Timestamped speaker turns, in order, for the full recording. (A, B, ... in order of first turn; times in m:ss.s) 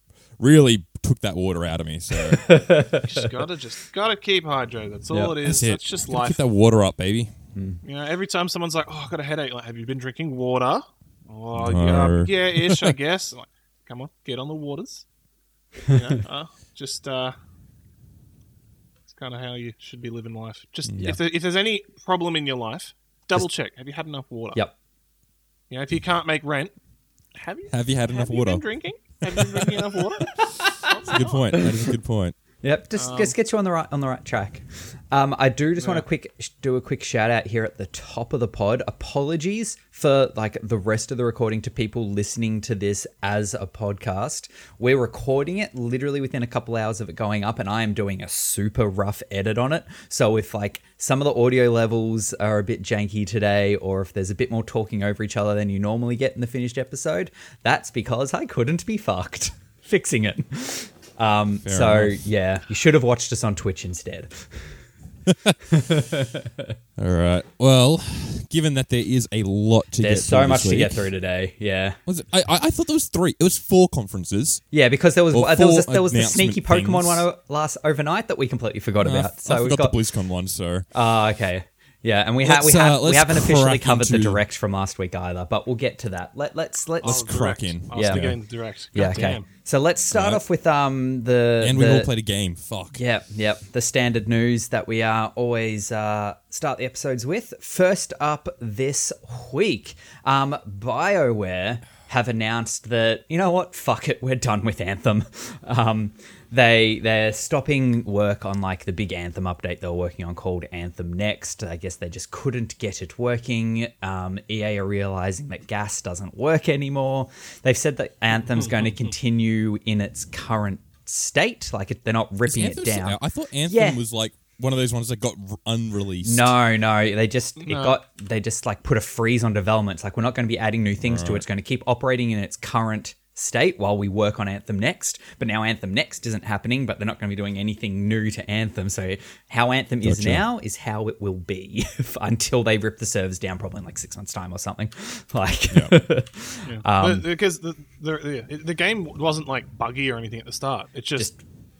0:00.4-0:02.6 A
0:02.1-0:03.3 B
0:03.0-0:06.4 C
0:05.1-0:05.4 B
0:05.4-0:07.3 A
0:07.5-0:07.8 B
0:07.8-0:15.0 C
0:11.5-0:12.9 A
0:15.9-0:17.3 C
0:19.1-0:24.6 C
0:20.8-0:21.1 A
0:25.7-0:26.7 C
0:27.3-0:31.7 C
0:27.7-0:28.6 A
0:30.4-0:30.9 B
0:31.1-0:32.4 A
0:32.6-1:04.8 B
0:33.0-0:33.3 C
0:35.8-0:36.0 C
1:01.6-1:02.2 A
1:05.2-1:05.6 A
1:05.6-1:06.7 B
1:07.0-1:11.1 A
1:10.0-1:12.0 B
1:12.0-1:14.6 A
1:14.7-1:20.0 B
1:15.3-1:17.2 A
1:19.0-1:20.9 A
1:20.9-1:28.3 B
1:22.4-1:24.4 A
1:27.0-1:29.4 C
1:27.0-1:28.4 A
1:28.9-1:32.1 B
1:30.1-1:30.4 A
1:31.6-1:33.0 A
1:32.9-2:04.0 B
1:58.4-1:59.0 C
2:02.4-2:06.6 A
2:06.2-2:27.2 B
2:07.6-2:08.0 C
2:11.0-2:11.4 A
2:20.0-2:20.4 A
2:26.6-2:31.3 C